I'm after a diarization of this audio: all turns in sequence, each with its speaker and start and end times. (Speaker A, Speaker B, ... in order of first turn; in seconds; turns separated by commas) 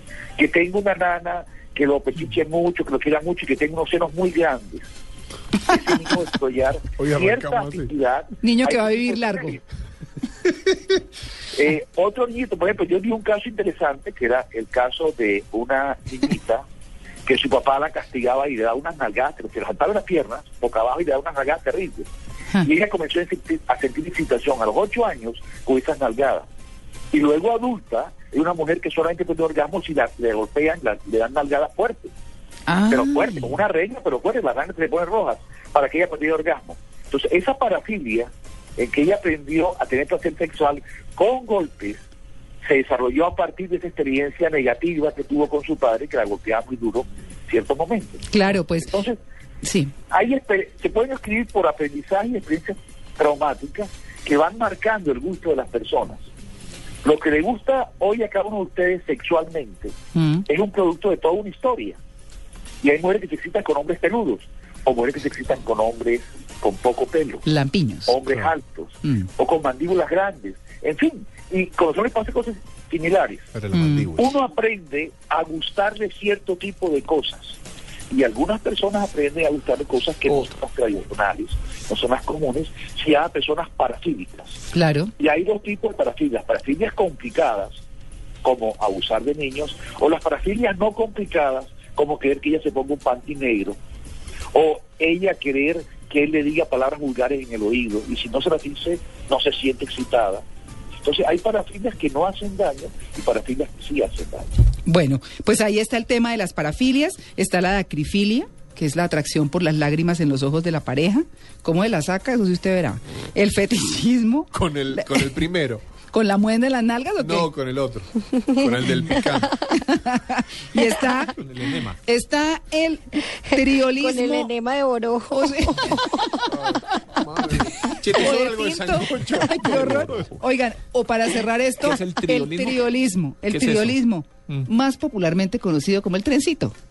Speaker A: 0.4-4.9, Speaker A: 5.7-9.6, Speaker B: 7.0-7.9, Speaker C: 8.4-9.6, Speaker A: 11.5-16.6, Speaker A: 17.2-22.1, Speaker A: 22.6-26.4, Speaker A: 27.1-32.1, Speaker C: 32.7-33.4, Speaker A: 32.9-42.0, Speaker A: 42.6-49.2, Speaker C: 48.3-48.9, Speaker C: 49.6-49.9, Speaker A: 50.1-56.2, Speaker A: 57.0-59.9, Speaker C: 60.1-60.4, Speaker A: 60.5-62.0, Speaker A: 62.8-67.5, Speaker C: 67.5-68.2, Speaker A: 68.0-73.5, Speaker B: 73.5-74.3, Speaker C: 73.7-74.1, Speaker A: 74.1-77.6, Speaker A: 78.1-84.6, Speaker C: 84.7-85.1, Speaker A: 85.2-87.8, Speaker A: 88.4-93.8, Speaker A: 94.5-100.4, Speaker A: 101.0-104.5, Speaker C: 104.9-115.4, Speaker B: 114.5-115.8, Speaker C: 116.1-117.5, Speaker B: 117.2-119.6, Speaker D: 118.3-119.5, Speaker C: 119.7-121.3, Speaker E: 121.4-122.0, Speaker C: 122.0-124.5, Speaker D: 123.3-126.9, Speaker C: 125.3-126.0, Speaker B: 126.5-130.2, Speaker E: 128.0-129.0, Speaker C: 128.1-136.7, Speaker E: 129.6-130.2, Speaker E: 131.8-132.9, Speaker E: 133.5-133.9